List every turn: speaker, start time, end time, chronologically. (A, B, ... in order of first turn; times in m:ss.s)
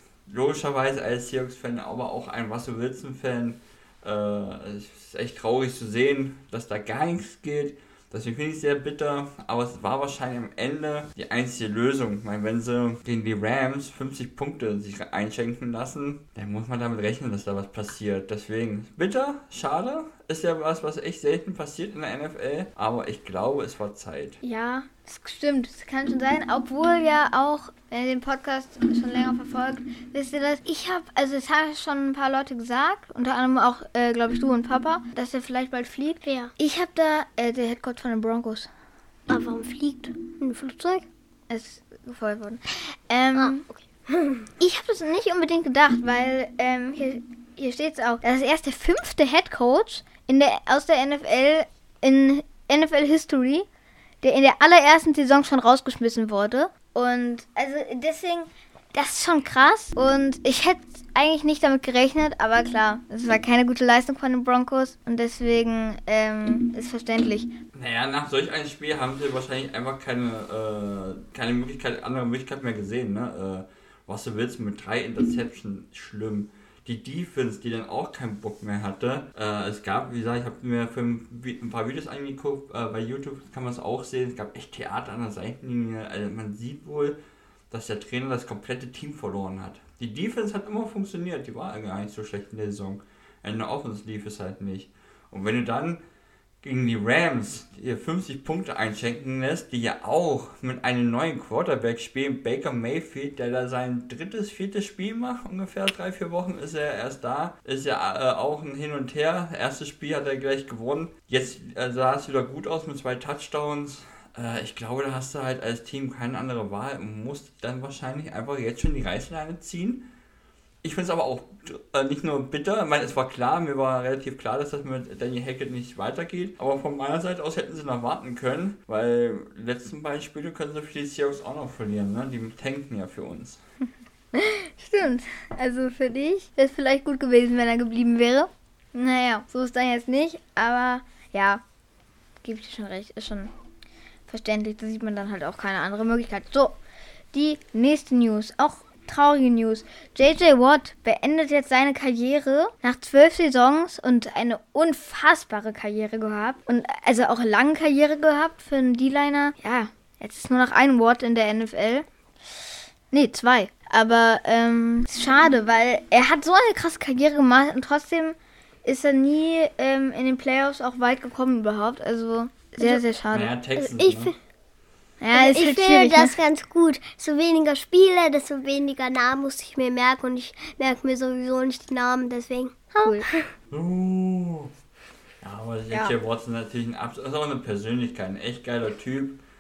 0:00.3-0:24.4 A
0:24.4-0:38.7 B
0:36.2-0:36.5 C
0:39.3-0:41.1 C
0:41.5-0:43.6 B
0:43.4-0:44.5 C
0:44.6-0:53.7 B
0:54.2-1:07.5 B
1:07.7-1:27.2 A
1:27.7-1:36.0 A
1:36.6-2:00.0 A
2:00.8-2:13.6 A
2:14.3-2:21.6 B
2:22.4-2:23.5 B
2:24.3-2:26.8 B
2:27.3-2:42.1 B
2:43.1-2:53.5 B
2:53.3-2:54.3 A
2:53.8-2:54.4 C
2:55.2-2:56.4 B
2:55.3-3:03.5 C
3:03.0-3:03.3 B
3:03.7-3:04.7 A
3:05.4-3:09.4 A